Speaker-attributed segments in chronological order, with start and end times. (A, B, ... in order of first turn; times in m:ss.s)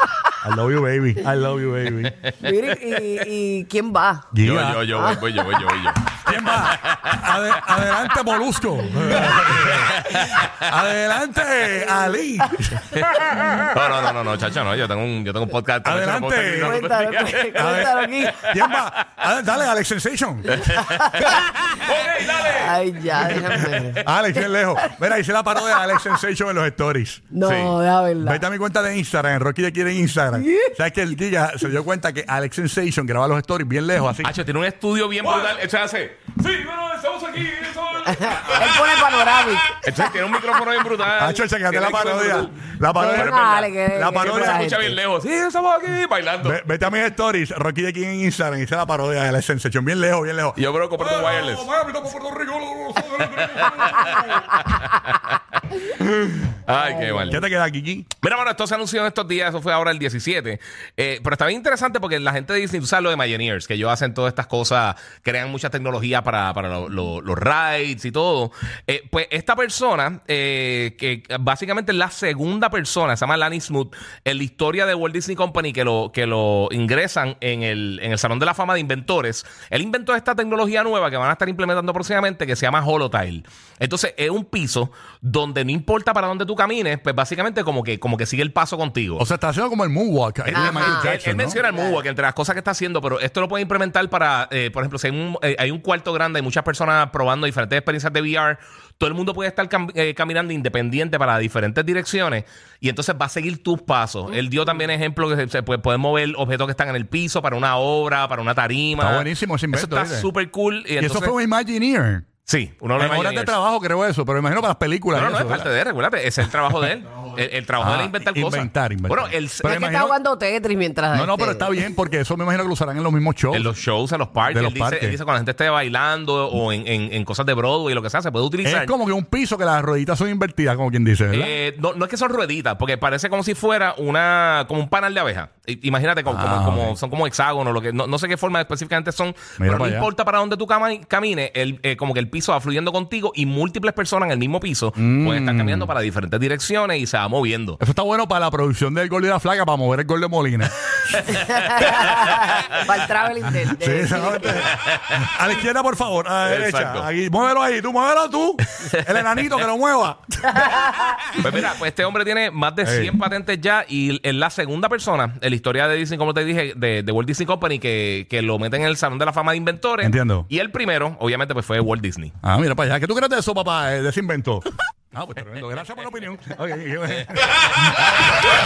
0:00.4-0:02.2 A
0:02.4-0:04.3 B
0:04.3-0:04.9 A
0:04.4-0:07.9 C
0:04.9-0:05.5 B
0:06.2-0:12.9 A
0:09.2-0:10.6 C
0:12.1-0:13.5 B
0:12.9-0:18.8 C
0:15.8-0:17.0 A
0:16.6-0:18.4 B
0:17.5-0:20.7 A
0:20.5-0:24.0 C
0:20.7-0:21.4 B
0:22.4-0:24.9 B
0:24.0-0:27.3 A
0:25.7-0:26.1 B
0:27.3-0:28.4 B
0:27.4-0:27.7 C
0:28.2-0:34.3 A
0:30.4-0:30.7 B
0:34.2-0:38.9 C
0:35.2-0:35.5 A
0:38.1-0:39.8 B
0:38.2-0:38.7 A
0:39.7-0:43.6 C
0:41.1-0:44.7 A
0:42.9-0:45.0 B
0:44.2-0:46.6 C
0:46.4-0:54.7 A
0:50.6-0:51.7 C
0:53.4-0:55.4 C
0:55.9-0:57.4 C
0:56.2-0:56.5 A
0:56.7-0:57.3 B
0:57.3-0:58.1 A
0:58.2-1:29.2 C
1:29.2-1:31.6 A
1:30.5-1:51.3 C
1:30.5-1:32.0 B
1:49.0-1:50.3 A
1:51.0-1:52.3 A
1:52.5-1:53.5 C
1:53.0-1:55.7 A
1:55.1-1:59.8 C
1:57.8-2:00.1 A
1:59.6-2:01.7 B
2:01.1-2:03.7 A
2:03.5-2:08.9 C
2:04.4-2:05.2 A
2:08.6-2:11.6 A
2:11.3-2:27.8 C
2:16.3-2:17.0 A
2:19.6-2:20.1 A
2:25.0-2:25.9 A
2:27.8-2:32.5 A
2:31.2-2:32.7 C
2:31.4-2:34.7 B
2:33.8-2:41.2 A
2:34.6-2:35.2 C
2:36.4-2:37.1 C
2:38.8-2:39.5 C
2:40.6-2:41.0 B
2:41.3-2:52.3 C
2:42.8-2:43.1 A
2:50.0-2:50.5 A
2:52.4-2:58.2 A